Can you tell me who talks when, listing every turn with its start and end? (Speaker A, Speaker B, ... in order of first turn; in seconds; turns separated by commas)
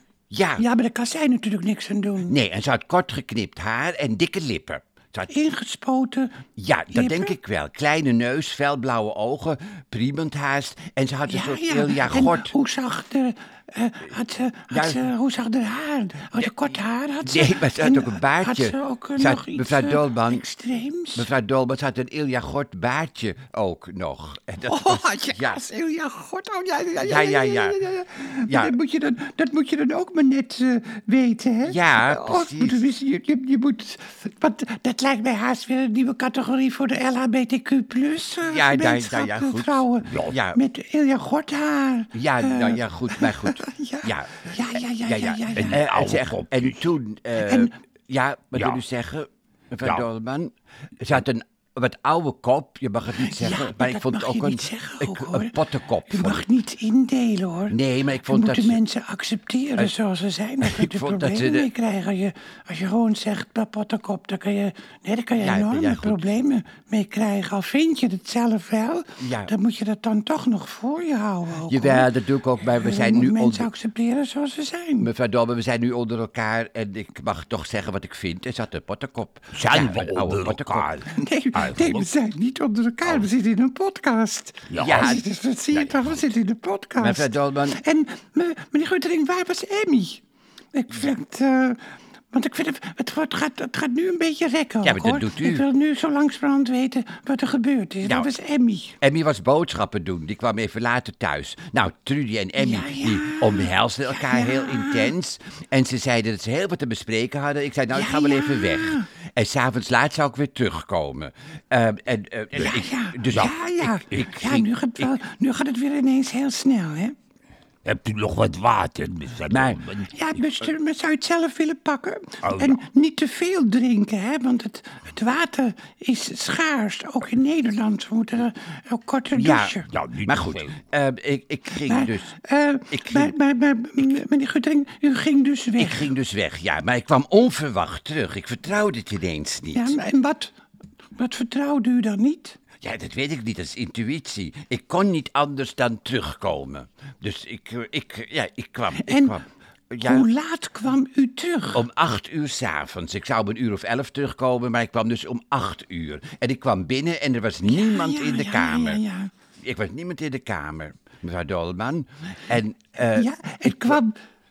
Speaker A: 0.3-0.6, Speaker B: 0.6-2.3, Speaker A: 2.3-5.3, Speaker B: 5.3-6.4, Speaker A: 6.5-12.5, Speaker B: 6.9-7.3, Speaker B: 11.3-21.3, Speaker A: 14.7-15.0, Speaker A: 17.2-20.4, Speaker A: 21.1-25.6, Speaker B: 24.6-45.8, Speaker A: 27.0-27.8, Speaker A: 28.4-28.7, Speaker A: 31.6-32.8, Speaker A: 38.5-40.6, Speaker C: 40.0-40.4, Speaker A: 42.1-56.4, Speaker C: 45.5-46.9, Speaker B: 47.4-47.7, Speaker C: 48.5-48.8, Speaker B: 53.2-55.5, Speaker B: 56.1-72.1, Speaker A: 57.7-58.8, Speaker A: 60.6-61.7, Speaker A: 65.4-66.4, Speaker A: 69.2-69.5, Speaker A: 71.7-73.7, Speaker B: 72.6-75.1, Speaker A: 75.0-80.9, Speaker C: 79.5-82.1, Speaker B: 81.1-90.2, Speaker C: 84.7-86.3, Speaker A: 84.8-85.2, Speaker A: 87.0-87.8, Speaker B: 90.7-91.8, Speaker B: 92.3-99.0, Speaker A: 94.8-95.6, Speaker A: 98.0-98.3, Speaker A: 99.0-115.1, Speaker B: 102.6-105.1, Speaker B: 107.9-109.1, Speaker C: 112.5-113.5, Speaker B: 112.6-117.1, Speaker C: 117.8-120.3, Speaker A: 119.5-119.8, Speaker B: 120.1-129.9, Speaker C: 122.4-122.8, Speaker A: 129.3-132.3, Speaker C: 129.9-130.7, Speaker B: 131.8-136.1, Speaker A: 132.9-133.3, Speaker A: 135.8-140.0, Speaker B: 139.7-140.5, Speaker B: 141.2-142.6, Speaker A: 142.8-150.3, Speaker B: 148.9-149.4, Speaker B: 150.0-151.8, Speaker A: 151.7-159.0, Speaker B: 157.7-159.3, Speaker A: 159.6-164.0, Speaker B: 163.1-164.2